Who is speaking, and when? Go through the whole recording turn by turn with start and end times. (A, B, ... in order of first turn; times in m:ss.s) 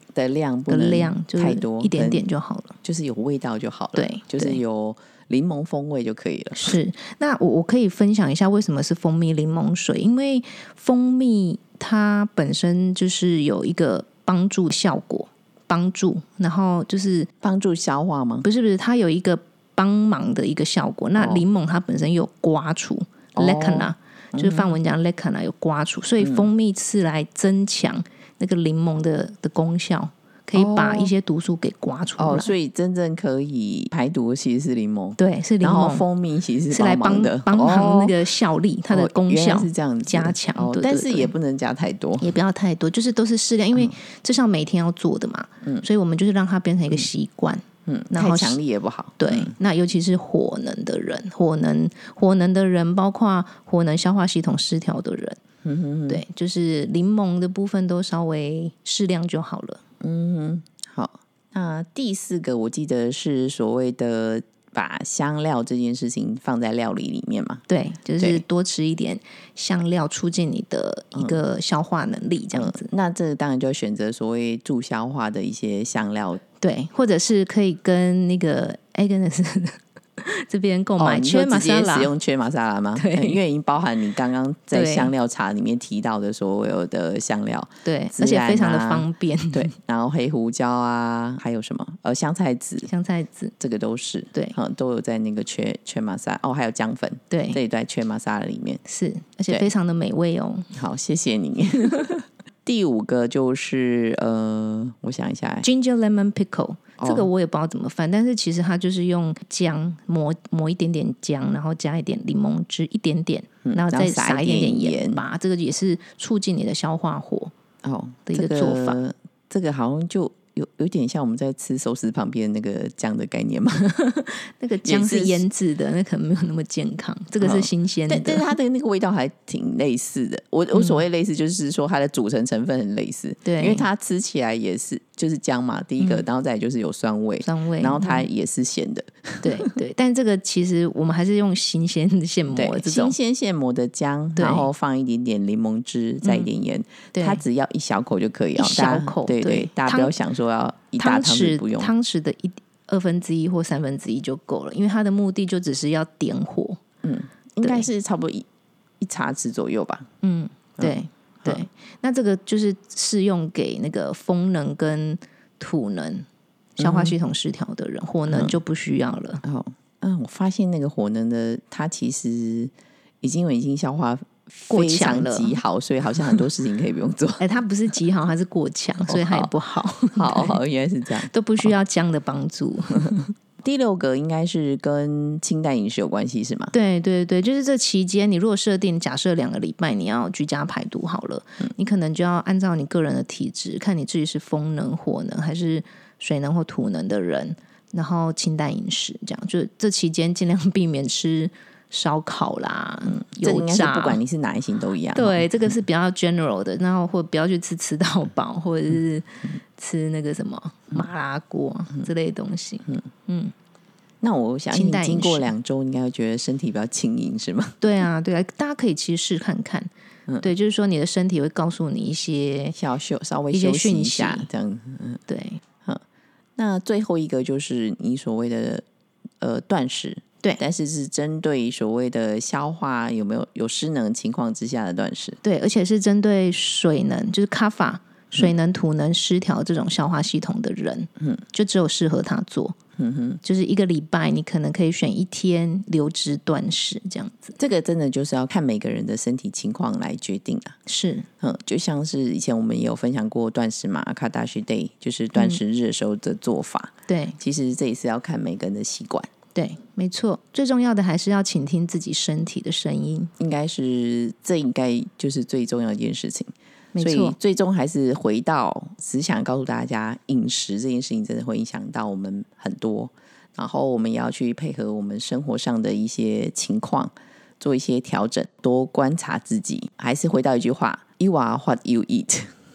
0:00.2-0:02.2 A
0:00.7-0:02.8 B
0:02.8-0:06.7 A
0:04.0-0:04.6 B
0:06.6-0:17.3 B
0:17.4-0:18.5 A
0:18.4-0:32.5 B
0:21.2-0:21.4 A
0:23.4-0:24.8 A
0:26.2-0:26.5 A
0:30.6-0:31.1 A
0:32.2-0:38.2 A
0:35.2-0:36.1 B
0:36.7-0:41.3 B
0:38.9-0:42.3 A
0:42.2-0:48.6 B
0:47.9-0:49.6 A
0:49.2-0:55.4 B
0:55.6-0:56.2 A
0:56.1-0:59.8 B
1:00.0-1:07.6 A
1:07.7-1:12.9 B
1:08.2-1:08.4 A
1:12.5-1:16.4 A
1:16.6-1:22.1 B
1:21.0-1:32.9 A
1:23.0-1:23.4 B
1:24.7-1:25.1 B
1:27.8-1:29.7 B
1:32.9-1:33.5 B
1:33.6-1:38.8 A
1:37.3-1:37.6 B
1:38.9-1:40.7 B
1:40.7-1:45.7 A
1:45.6-1:57.5 B
1:47.0-1:47.3 A
1:53.6-1:55.2 A
1:57.8-2:04.0 A
1:58.3-1:59.0 B
2:03.9-2:08.5 B
2:04.8-2:05.4 A
2:07.4-2:19.7 A
2:10.7-2:11.0 B
2:13.4-2:13.9 B
2:16.0-2:16.2 B
2:17.4-2:18.3 B
2:19.4-2:23.2 B
2:22.5-2:31.9 A
2:24.4-2:24.7 B
2:26.2-2:26.5 B
2:27.1-2:27.4 B
2:28.6-2:30.1 B
2:31.0-2:36.8 B
2:37.0-2:38.4 A
2:39.0-2:40.1 A
2:40.2-2:46.3 B
2:40.8-2:41.7 A
2:46.8-2:49.4 B
2:46.8-2:47.1 A
2:48.3-2:48.6 A
2:49.4-2:57.4 A
2:54.7-2:55.6 B
2:57.4-3:00.6 B
2:59.0-2:59.5 A
3:00.1-3:01.7 A
3:01.2-3:03.3 B
3:03.1-3:06.7 A
3:06.7-3:24.2 B
3:23.1-3:25.5 A
3:25.1-3:33.5 B
3:34.2-3:37.8 A
3:34.7-3:35.5 B
3:37.8-3:39.9 B
3:40.4-3:42.8 B
3:42.8-3:45.2 A
3:43.5-3:44.5 B
3:45.3-3:45.6 B
3:46.6-3:48.8 A
3:49.4-3:55.4 A
3:55.4-4:02.8 B
4:03.0-4:03.4 A
4:03.4-4:07.6 B
4:07.6-4:10.8 A
4:10.9-4:11.3 B
4:11.4-4:19.3 A
4:15.4-4:15.6 B
4:17.1-4:17.4 B
4:19.6-4:23.3 B
4:23.4-4:42.5 A
4:26.9-4:27.4 B